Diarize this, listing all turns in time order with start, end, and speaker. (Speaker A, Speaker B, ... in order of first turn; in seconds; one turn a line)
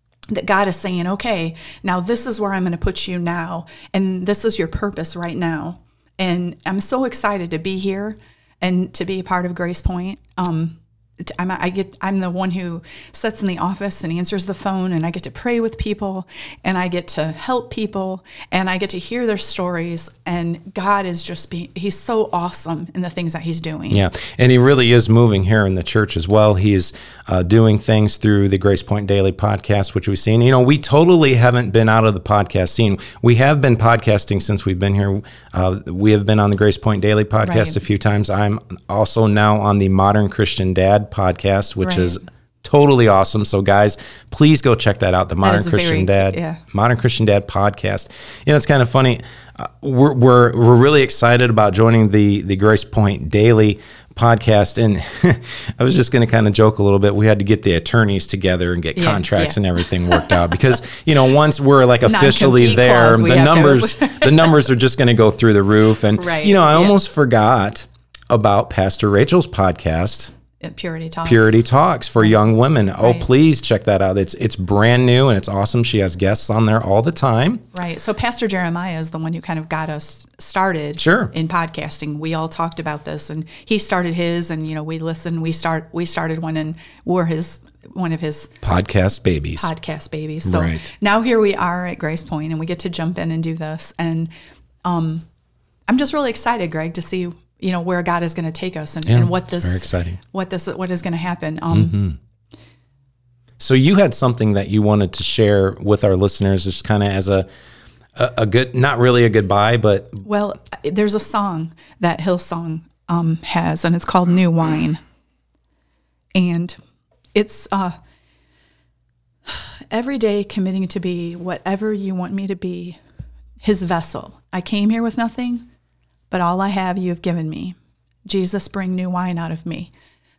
Speaker A: 0.3-24.0
Speaker B: 23.9-70.3
Speaker A: 37.4-37.8
Speaker A: 41.8-42.2
Speaker A: 45.4-46.6
Speaker A: 59.0-60.6
Speaker A: 62.0-64.6
Speaker A: 66.2-67.0
Speaker A: 70.6-71.7
Speaker B: 71.2-77.6
Speaker A: 73.0-73.2
Speaker A: 77.7-88.5
Speaker B: 81.0-81.3
Speaker B: 88.6-89.7
Speaker A: 89.6-94.3
Speaker B: 90.4-90.9
Speaker A: 94.8-95.2
Speaker A: 95.9-102.0
Speaker B: 99.0-100.2
Speaker B: 101.7-102.2
Speaker B: 103.6-107.5
Speaker B: 108.2-110.2
Speaker A: 110.2-115.0
Speaker A: 116.3-116.7
Speaker A: 117.3-118.0
Speaker A: 119.5-123.0
Speaker A: 123.6-125.6
Speaker A: 126.3-129.9